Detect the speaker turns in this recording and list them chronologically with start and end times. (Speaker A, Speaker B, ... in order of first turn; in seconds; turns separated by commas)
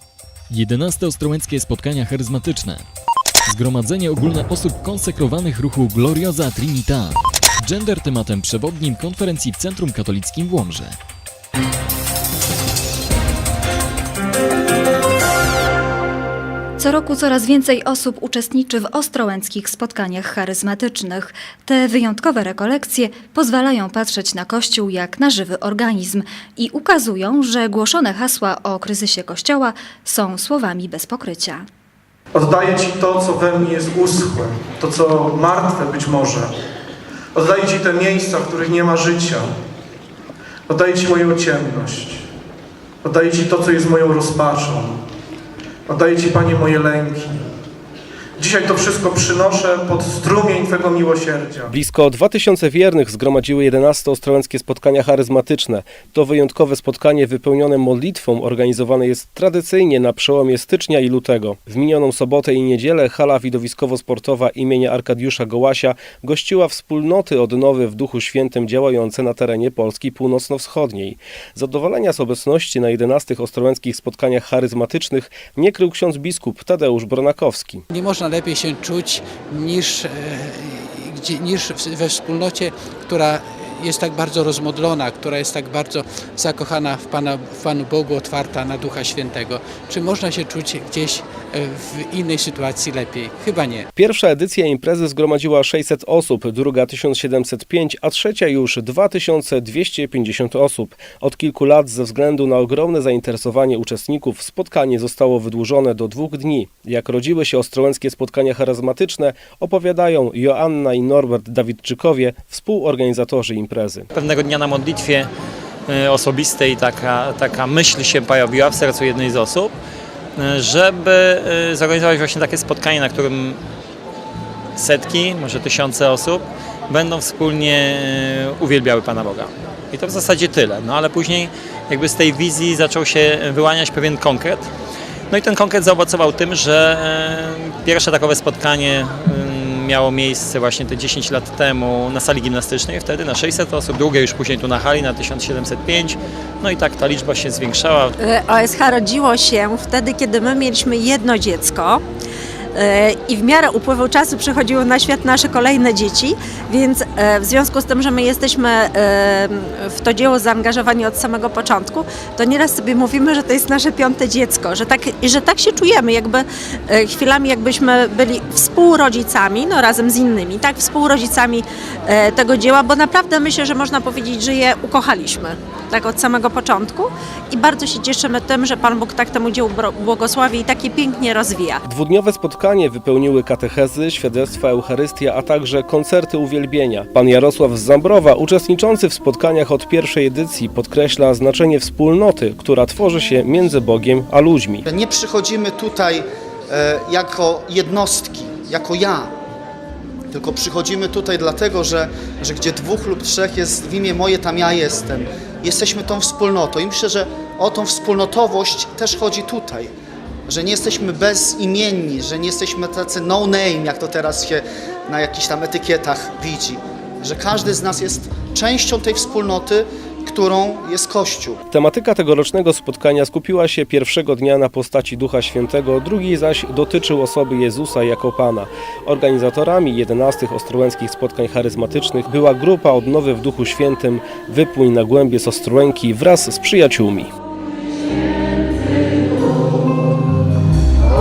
Speaker A: 0.5-2.8, Speaker A: 3.5-10.9, Speaker B: 16.8-31.6, Speaker C: 32.3-36.5, Speaker C: 37.3-39.5, Speaker C: 40.7-42.2, Speaker C: 43.0-45.0, Speaker C: 45.9-47.4, Speaker C: 48.4-51.7, Speaker D: 51.7-77.8, Speaker E: 77.9-93.9, Speaker D: 94.0-114.1, Speaker F: 114.1-115.3, Speaker F: 115.9-119.7, Speaker F: 120.4-123.6, Speaker F: 124.8-134.7, Speaker F: 135.3-148.1, Speaker G: 148.2-152.0, Speaker G: 152.7-181.8, Speaker D: 181.8-194.8, Speaker H: 194.8-199.3, Speaker H: 200.3-209.9, Speaker H: 210.5-221.6, Speaker D: 221.7-237.3